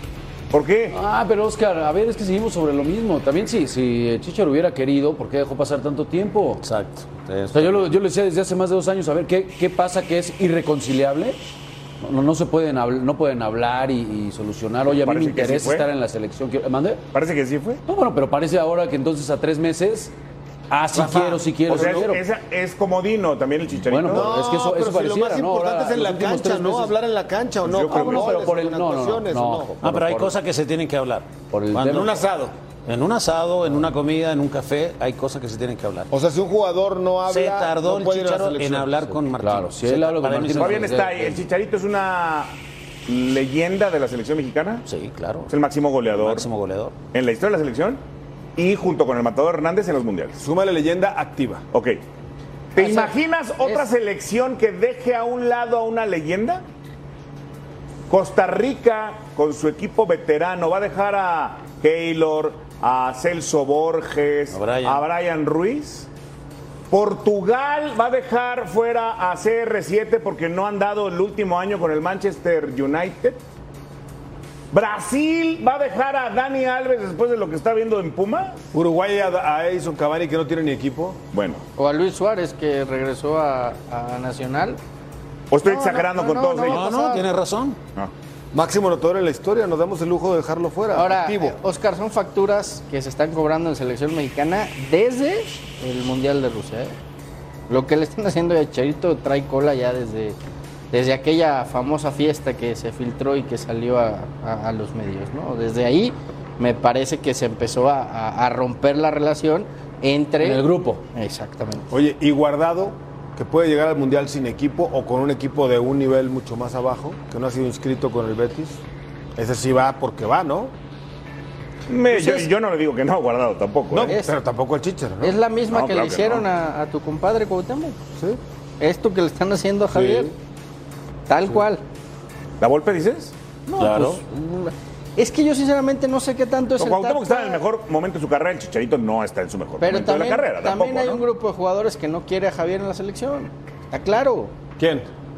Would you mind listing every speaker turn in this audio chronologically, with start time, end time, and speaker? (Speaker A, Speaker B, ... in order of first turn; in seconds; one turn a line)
Speaker A: 0.5-1.0
Speaker B: 0.9-6.6
Speaker C: 6.6-7.9
Speaker B: 7.5-11.4
Speaker B: 12.0-17.0
Speaker A: 14.9-15.9
Speaker A: 17.1-17.8
Speaker B: 17.9-20.1
Speaker B: 20.7-22.2
Speaker D: 20.9-22.0
Speaker A: 21.7-24.3
Speaker B: 23.9-26.9
Speaker D: 24.1-29.7
Speaker B: 27.7-30.3
Speaker A: 27.9-28.3
Speaker C: 29.8-32.1
Speaker B: 31.5-32.2
Speaker D: 31.9-32.5
Speaker C: 32.9-36.1
Speaker D: 36.1-38.9
Speaker C: 37.3-41.0
Speaker B: 39.1-41.4
Speaker A: 40.6-44.8
Speaker C: 44.9-45.5
Speaker A: 45.5-46.5
Speaker C: 46.1-46.9
Speaker A: 47.1-48.0
Speaker A: 48.5-50.4
Speaker D: 50.4-51.6
Speaker A: 51.7-52.0
Speaker A: 52.7-56.6
Speaker E: 52.8-53.8
Speaker A: 58.1-66.1
Speaker C: 64.5-65.0
Speaker A: 66.9-73.4
Speaker A: 74.7-78.6
Speaker D: 78.7-81.2
Speaker A: 81.3-81.6
Speaker E: 81.8-84.8
Speaker A: 85.5-87.0
Speaker E: 85.6-87.3
Speaker C: 86.7-87.8
Speaker D: 88.5-91.5
Speaker E: 90.9-97.0
Speaker E: 97.7-100.3
Speaker E: 100.9-111.9
Speaker B: 110.4-111.0
Speaker D: 111.9-118.8
Speaker D: 119.3-120.7
Speaker A: 121.9-124.1
Speaker D: 122.1-122.5
Speaker D: 123.9-125.4
Speaker E: 124.0-124.3
Speaker E: 125.2-128.0
Speaker A: 125.7-126.5
Speaker E: 128.8-130.3
Speaker D: 129.9-130.3
Speaker E: 131.3-131.8
Speaker A: 132.6-133.3
Speaker E: 133.7-137.6
Speaker A: 136.8-141.2
Speaker E: 139.8-144.5
Speaker D: 144.8-145.1